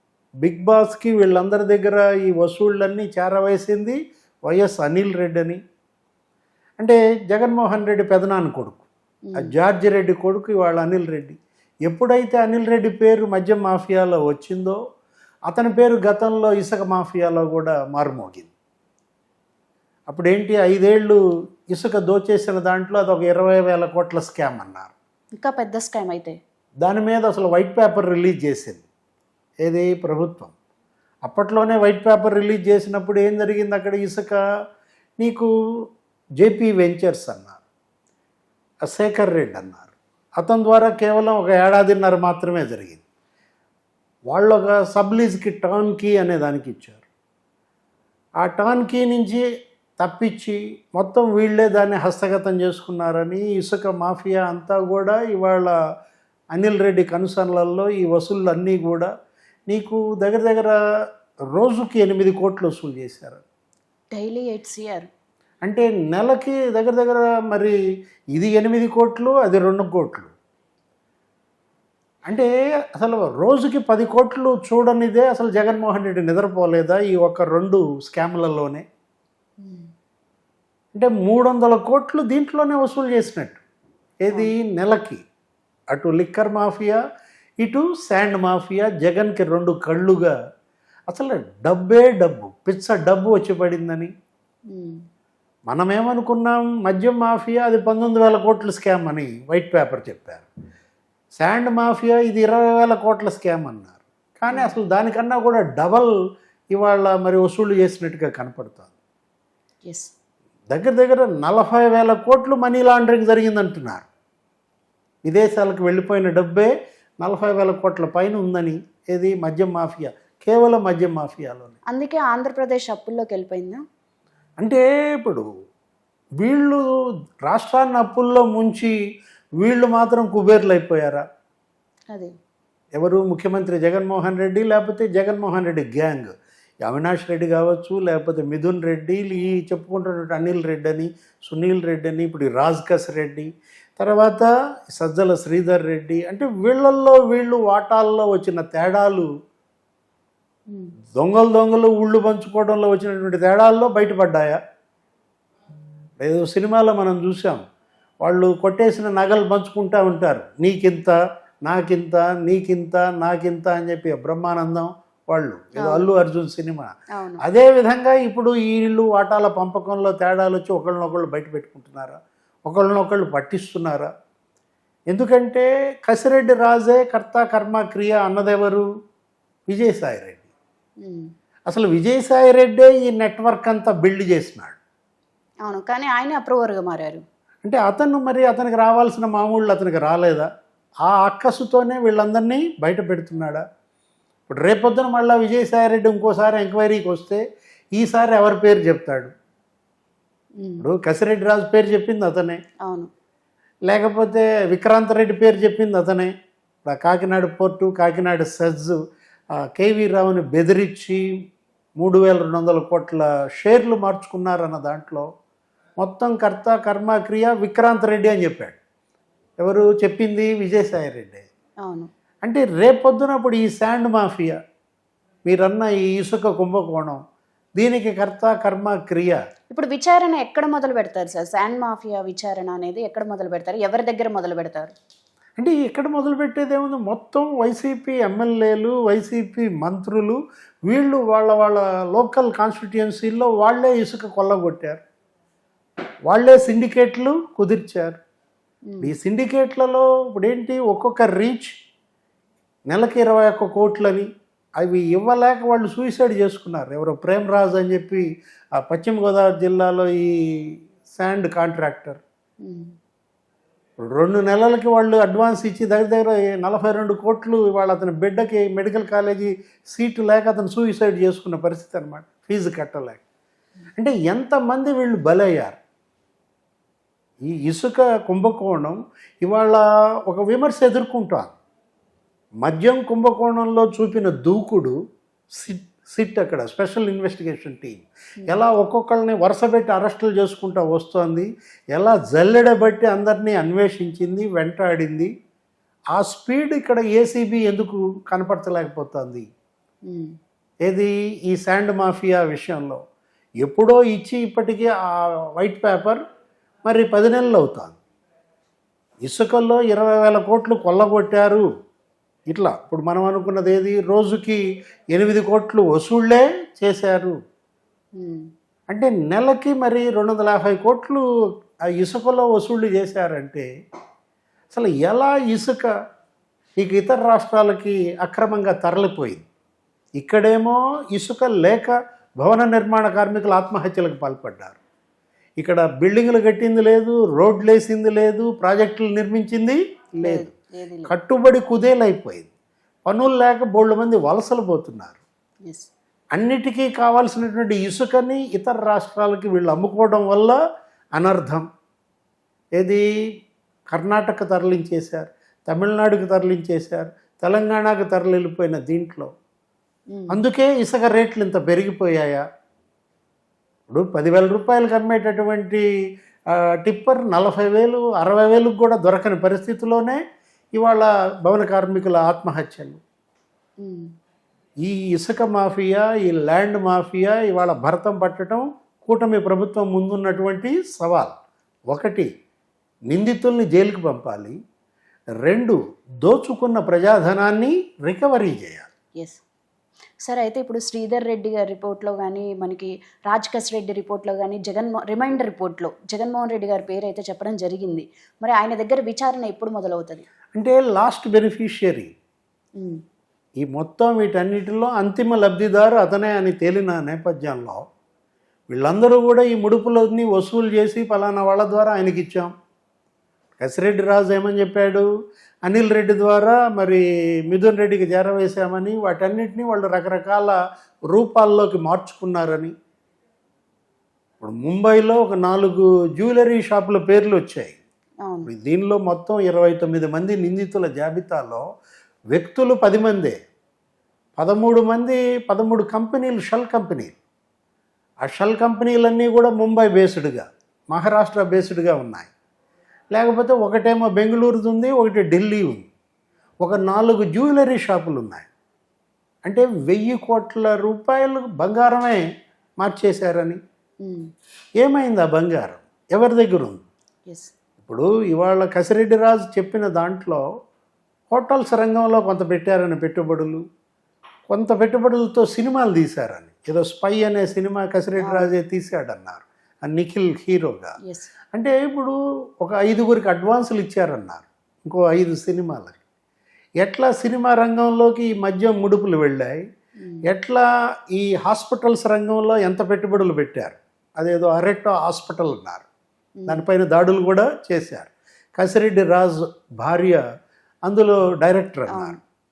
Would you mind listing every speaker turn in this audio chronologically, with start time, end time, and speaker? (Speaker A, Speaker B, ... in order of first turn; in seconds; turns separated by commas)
Speaker A: 0.4-4.0, Speaker A: 4.5-5.6, Speaker A: 6.8-14.8, Speaker A: 15.5-18.5, Speaker A: 20.1-21.2, Speaker A: 21.7-24.9, Speaker B: 25.4-26.4, Speaker A: 26.8-28.8, Speaker A: 29.6-30.5, Speaker A: 31.2-34.4, Speaker A: 35.2-35.5, Speaker A: 36.4-37.6, Speaker A: 38.8-43.0, Speaker A: 44.3-47.0, Speaker A: 48.4-49.4, Speaker A: 50.0-55.7, Speaker A: 56.5-59.1, Speaker A: 59.7-60.8, Speaker A: 61.5-63.4, Speaker B: 64.1-65.1, Speaker A: 65.6-67.8, Speaker A: 68.3-70.3, Speaker A: 72.3-78.8, Speaker B: 79.6-79.9, Speaker A: 81.0-83.6, Speaker A: 84.2-85.2, Speaker A: 85.9-87.0, Speaker A: 87.6-90.3, Speaker A: 91.1-94.1, Speaker B: 94.7-95.0, Speaker A: 95.7-100.5, Speaker A: 101.4-106.1, Speaker A: 106.7-108.9, Speaker B: 109.8-110.1, Speaker A: 110.7-114.1, Speaker A: 115.3-116.7, Speaker A: 117.2-121.8, Speaker B: 121.9-123.8, Speaker A: 124.6-125.5, Speaker A: 126.4-126.9, Speaker A: 127.5-128.9, Speaker A: 129.6-131.2, Speaker A: 133.0-136.3, Speaker A: 136.8-149.3, Speaker A: 151.2-154.6, Speaker A: 156.2-157.6, Speaker A: 158.2-166.9, Speaker B: 165.8-166.1, Speaker B: 167.2-167.4, Speaker A: 167.4-174.1, Speaker A: 175.1-178.8, Speaker A: 179.7-180.5, Speaker B: 181.0-181.3, Speaker A: 181.7-184.8, Speaker B: 185.7-187.2, Speaker A: 187.6-190.5, Speaker A: 191.0-193.6, Speaker A: 194.5-197.4, Speaker A: 197.9-199.3, Speaker B: 200.6-200.8, Speaker A: 200.8-202.6, Speaker A: 203.9-206.3, Speaker A: 206.8-209.0, Speaker A: 209.7-211.2, Speaker A: 212.0-215.3, Speaker A: 216.0-218.8, Speaker A: 219.6-221.4, Speaker A: 222.4-224.6, Speaker A: 225.5-227.2, Speaker A: 227.8-229.4, Speaker B: 229.7-234.9, Speaker A: 235.6-245.0, Speaker A: 246.3-248.2, Speaker B: 248.9-249.1, Speaker A: 249.0-251.8, Speaker A: 252.9-254.3, Speaker A: 254.8-262.2, Speaker B: 262.6-262.9, Speaker A: 264.1-273.2, Speaker A: 274.0-275.8, Speaker A: 277.5-281.5, Speaker A: 282.6-285.0, Speaker A: 285.6-295.3, Speaker A: 296.1-299.5, Speaker A: 300.8-303.0, Speaker A: 303.6-306.2, Speaker A: 306.9-308.0, Speaker A: 309.2-311.6, Speaker A: 312.5-314.6, Speaker A: 315.1-317.4, Speaker B: 318.2-318.4, Speaker A: 318.9-321.2, Speaker A: 322.0-323.7, Speaker A: 324.7-325.9, Speaker A: 326.8-329.4, Speaker A: 330.2-334.8, Speaker A: 335.6-340.5, Speaker B: 340.2-341.1, Speaker A: 341.1-342.5, Speaker A: 343.1-345.2, Speaker A: 346.4-350.6, Speaker A: 351.2-351.6, Speaker A: 352.8-353.0, Speaker A: 353.9-359.3, Speaker B: 360.1-360.4, Speaker A: 360.3-362.4, Speaker A: 363.9-365.9, Speaker A: 366.5-370.2, Speaker A: 370.8-373.0, Speaker B: 373.8-374.1, Speaker A: 374.8-381.4, Speaker A: 381.9-382.3, Speaker A: 383.1-384.6, Speaker A: 385.4-388.9, Speaker B: 390.3-400.2, Speaker A: 400.6-402.1, Speaker A: 403.6-407.8, Speaker A: 408.7-412.5, Speaker A: 413.6-415.1, Speaker A: 415.6-420.6, Speaker A: 421.1-422.7, Speaker A: 424.4-427.8, Speaker B: 428.2-428.5, Speaker A: 428.5-431.6, Speaker A: 432.3-433.4, Speaker A: 434.4-437.2, Speaker A: 438.2-442.3, Speaker A: 443.1-445.9, Speaker A: 446.6-448.5, Speaker A: 449.4-452.2, Speaker A: 452.8-453.6, Speaker A: 454.8-456.9, Speaker A: 457.8-460.4, Speaker A: 461.3-463.6, Speaker A: 464.5-470.9, Speaker B: 468.2-468.5, Speaker B: 471.1-471.3, Speaker A: 471.5-476.0, Speaker A: 476.8-479.6, Speaker B: 480.0-480.2, Speaker A: 480.2-485.9, Speaker B: 486.4-486.6, Speaker A: 486.5-490.2, Speaker A: 490.9-492.2, Speaker B: 491.9-492.2